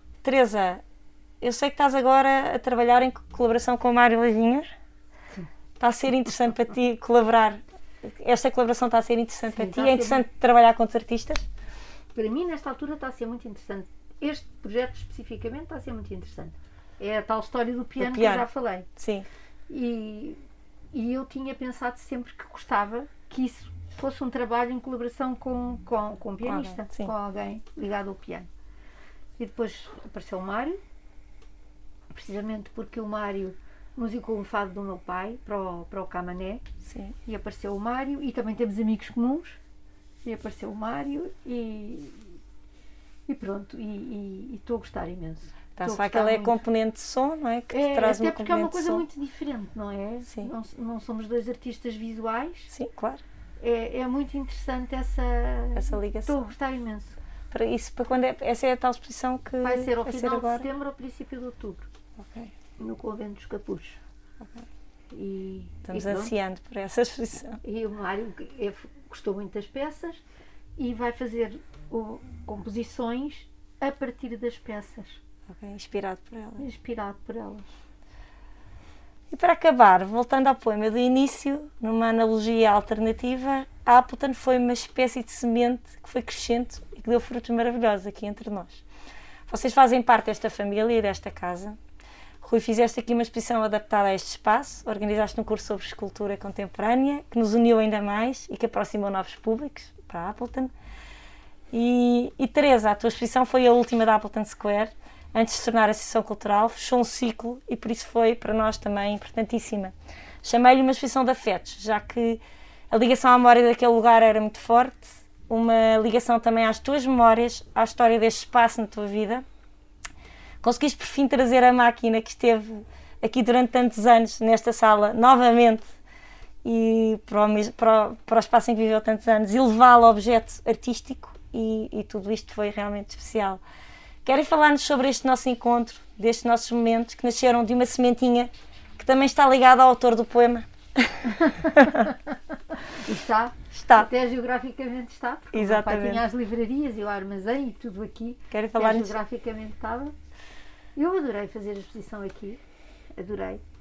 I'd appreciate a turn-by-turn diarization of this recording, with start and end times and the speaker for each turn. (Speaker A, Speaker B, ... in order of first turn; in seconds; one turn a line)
Speaker A: 0.2-0.8
Speaker A: 1.4-4.7
Speaker A: 5.8-11.4
Speaker B: 9.5-10.2
Speaker B: 12.1-18.9
Speaker A: 18.0-19.2
Speaker B: 19.7-20.4
Speaker B: 20.9-28.5
Speaker A: 26.4-27.1
Speaker B: 29.4-30.8
Speaker B: 32.1-36.6
Speaker A: 36.8-37.1
Speaker B: 37.2-39.6
Speaker B: 40.2-42.4
Speaker B: 43.3-46.6
Speaker A: 45.8-49.0
Speaker B: 47.7-52.7
Speaker A: 52.7-53.2
Speaker B: 53.6-57.2
Speaker A: 55.8-56.5
Speaker A: 57.5-60.7
Speaker B: 59.6-61.9
Speaker A: 62.2-62.5
Speaker B: 62.8-64.0
Speaker A: 64.4-64.7
Speaker B: 65.1-66.3
Speaker A: 65.9-67.6
Speaker B: 67.6-70.2
Speaker B: 70.8-75.2
Speaker A: 75.5-76.6
Speaker B: 76.6-77.7
Speaker A: 79.3-88.8
Speaker A: 89.5-91.8
Speaker A: 92.4-100.7
Speaker A: 101.7-119.4
Speaker A: 120.6-125.9
Speaker A: 126.6-133.6
Speaker A: 134.2-142.1
Speaker B: 141.4-142.2
Speaker B: 142.9-150.1
Speaker A: 143.7-144.1
Speaker A: 145.5-146.2
Speaker A: 148.5-149.2
Speaker B: 150.9-152.6
Speaker B: 153.2-153.6